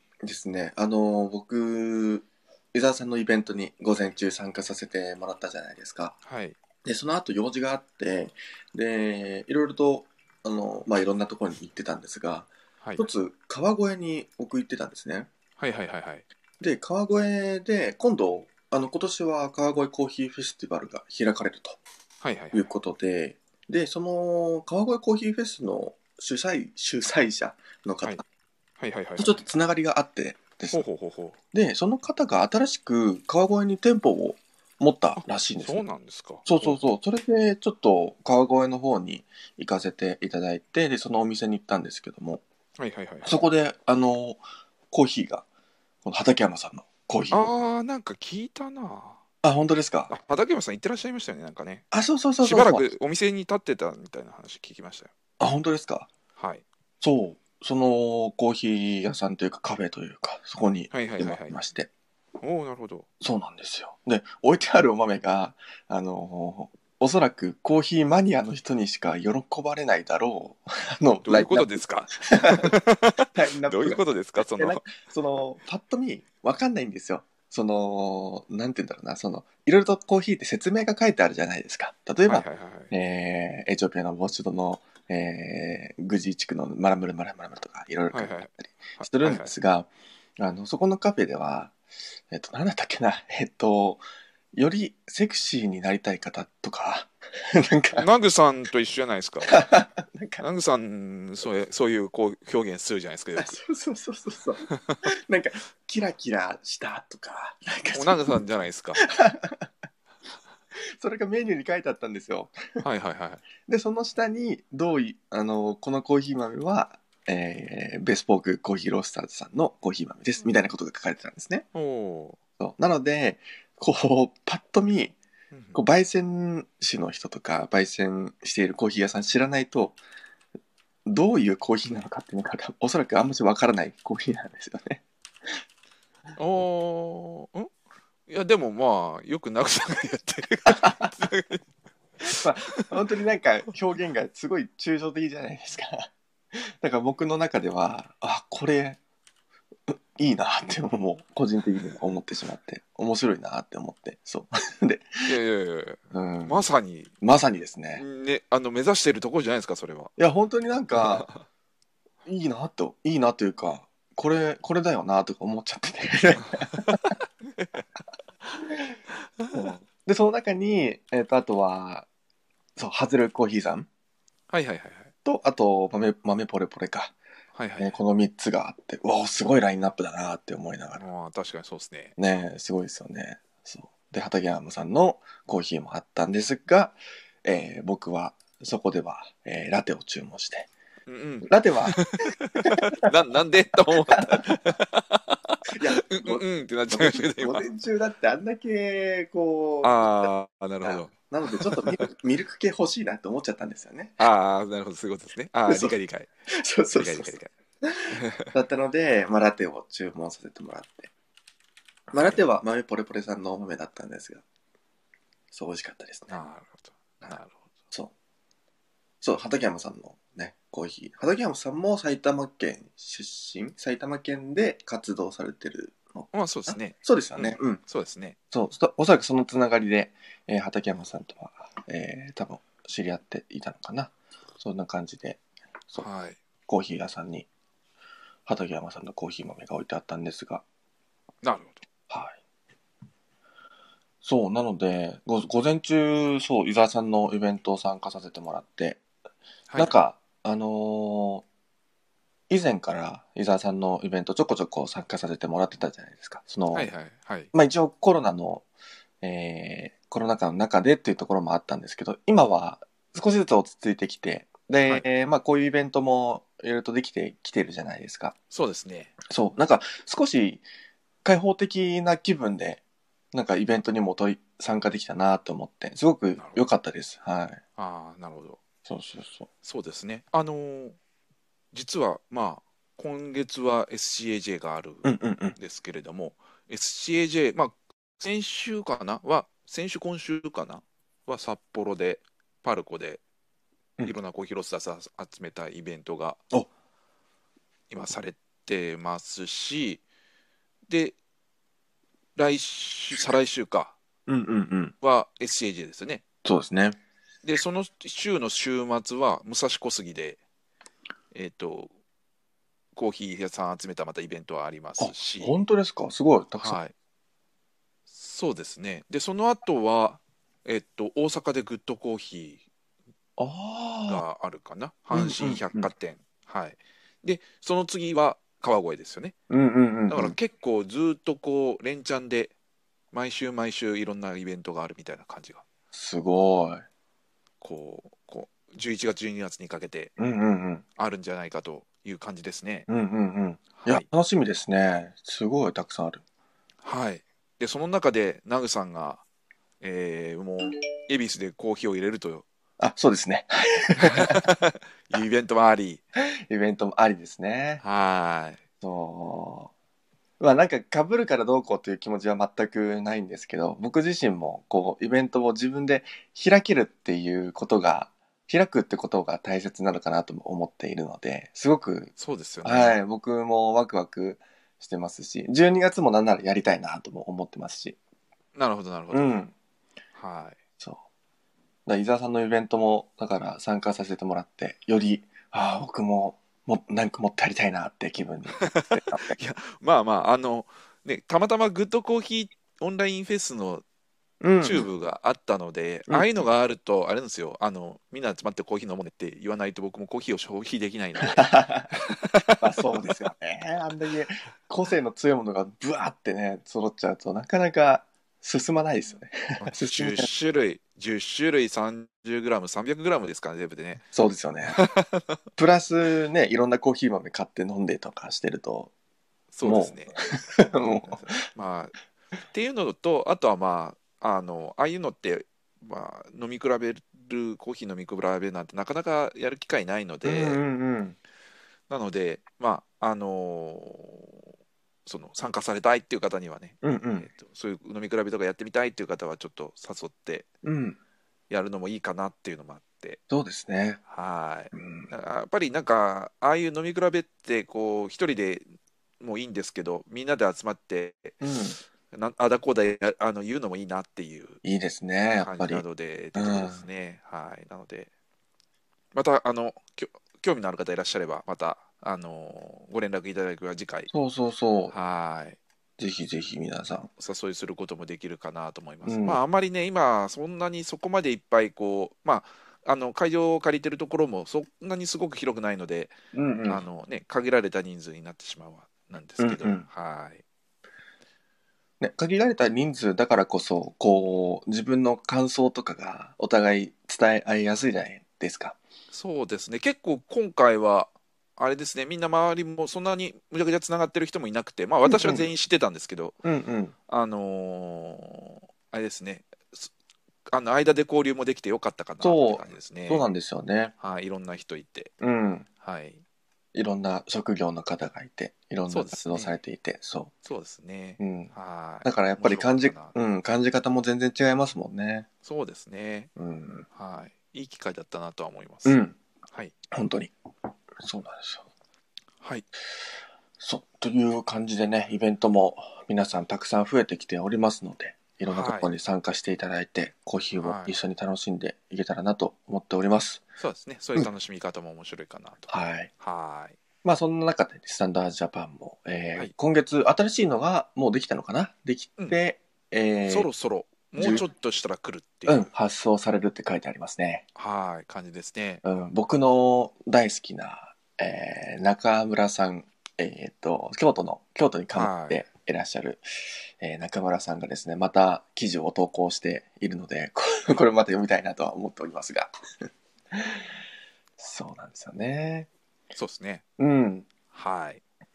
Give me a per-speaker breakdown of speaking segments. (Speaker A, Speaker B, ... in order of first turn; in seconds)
Speaker A: 0.2-6.2, 6.8-15.3, 16.6-21.8, 22.5-28.2, 29.2-30.8, 31.5-35.9, 36.5-42.4, 43.2-45.5, 46.0-47.5, 49.4-50.1, 51.9-52.9, 55.4-56.1, 57.0-61.9, 63.2-91.8, 92.3-94.0, 94.5-98.1, 99.5-100.5, 103.3-108.4, 109.0-109.7, 110.8-112.8, 113.7-121.7, 122.6-125.2, 125.8-130.0, 131.1-135.0, 140.7-141.2, 142.2-149.0, 149.9-155.2, 156.1-156.6, 157.2-158.0, 160.2-161.3, 162.3-167.1, 169.5-172.1, 172.8-173.9, 175.2-177.2, 177.8-181.0, 182.2-190.7, 191.4-193.1, 194.1-194.6, 195.7-200.3, 200.8-204.2, 205.7-205.9, 206.5-211.1, 212.1-214.4, 215.5-216.4, 219.2-227.8, 228.5-236.1, 236.7-237.5, 238.5-240.6, 242.1-242.4, 244.2-249.0, 249.8-251.4, 252.5-256.9, 257.5-258.7, 259.2-268.4, 269.3-270.6, 271.2-272.8, 273.3-277.6, 278.9-279.5, 285.0-285.6, 304.3-304.9, 306.4-307.0, 315.0-316.8, 323.4-324.2, 325.1-325.9, 329.5-330.4, 335.9-336.9, 340.2-340.8, 342.9-346.2, 352.8-354.5, 356.2-357.8, 358.8-359.7, 360.4-372.1, 372.6-378.0, 379.1-379.5, 381.9-389.4, 394.4-394.9, 396.1-396.3, 401.2-402.0, 402.6-410.3, 414.1-414.8, 415.6-418.9, 419.6-421.4, 430.2-431.2, 436.8-437.3, 440.6-441.0, 443.3-444.0, 444.7-445.1, 451.4-451.8, 454.6-455.8, 456.4-456.8, 464.1-464.9, 466.0-467.1, 469.1-469.4, 476.3-476.8, 479.4-479.9, 482.0-488.8, 495.1-495.5, 496.4-496.9, 502.2-503.9, 505.2-505.7, 506.7-510.3, 511.2-511.5, 512.0-515.3, 516.4-516.9, 518.9-519.2, 519.9-520.3, 521.0-521.7, 523.6-533.4, 535.7-536.1, 537.0-543.5, 544.2-544.5, 545.5-547.5, 548.8-556.2, 556.8-563.6, 564.4-565.7, 566.8-567.3
Speaker B: 6.2-6.6, 15.6-16.3, 22.2-22.7, 28.8-29.4, 30.7-31.4, 35.2-36.8, 42.8-43.4, 47.3-49.2, 50.1-51.9, 52.4-55.1, 56.4-56.6, 60.9-61.6, 62.4-63.1, 71.2-74.8, 82.3-82.9, 88.1-89.5, 98.0-99.6, 100.4-103.6, 104.7-105.0, 108.0-109.0, 112.8-113.5, 121.7-122.4, 125.5-125.8, 136.4-137.7, 138.3-141.6, 155.3-157.1, 158.0-160.1, 160.9-161.4, 167.1-167.8, 169.4-169.7, 174.5-175.1, 177.5-178.0, 181.0-182.1, 191.1-197.7, 199.8-202.0, 204.2-206.3, 206.9-207.5, 208.1-208.6, 212.1-212.4, 216.3-217.6, 226.3-228.4, 236.0-236.4, 241.4-241.8, 249.7-249.9, 256.7-257.5, 268.5-269.1, 276.4-276.6, 277.8-278.6, 279.6-281.0, 281.7-293.2, 294.1-296.4, 297.9-300.0, 300.9-301.2, 302.4-303.9, 305.0-306.2, 307.4-310.4, 311.3-311.9, 312.9-315.6, 316.6-316.9, 318.1-322.6, 324.1-329.4, 330.1-332.5, 333.1-335.6, 337.6-340.1, 341.0-342.9, 343.8-344.1, 346.8-349.2, 349.8-352.5, 354.0-356.0, 357.8-358.6, 372.2-373.0, 378.6-379.4, 380.1-380.6, 388.6-393.8, 394.6-403.3, 409.6-414.1, 414.7-415.4, 419.5-420.1, 421.1-421.9, 422.5-430.6, 431.9-434.4, 435.1-440.5, 441.5-443.2, 444.1-448.6, 449.2-451.4, 452.1-454.6, 455.4-458.1, 459.1-464.1, 464.9-465.6, 467.2-476.2, 476.7-480.4, 489.1-496.4, 497.1-499.9, 500.5-503.2, 504.0-505.1, 505.8-506.2, 508.9-509.6, 510.4-513.1, 515.4-516.3, 516.9-519.0, 522.4-522.7, 528.4-528.9, 530.6-531.0, 533.6-535.7, 536.2-536.8, 543.3-545.7, 547.6-548.8, 554.9-555.4, 566.1-566.6, 567.5-568.0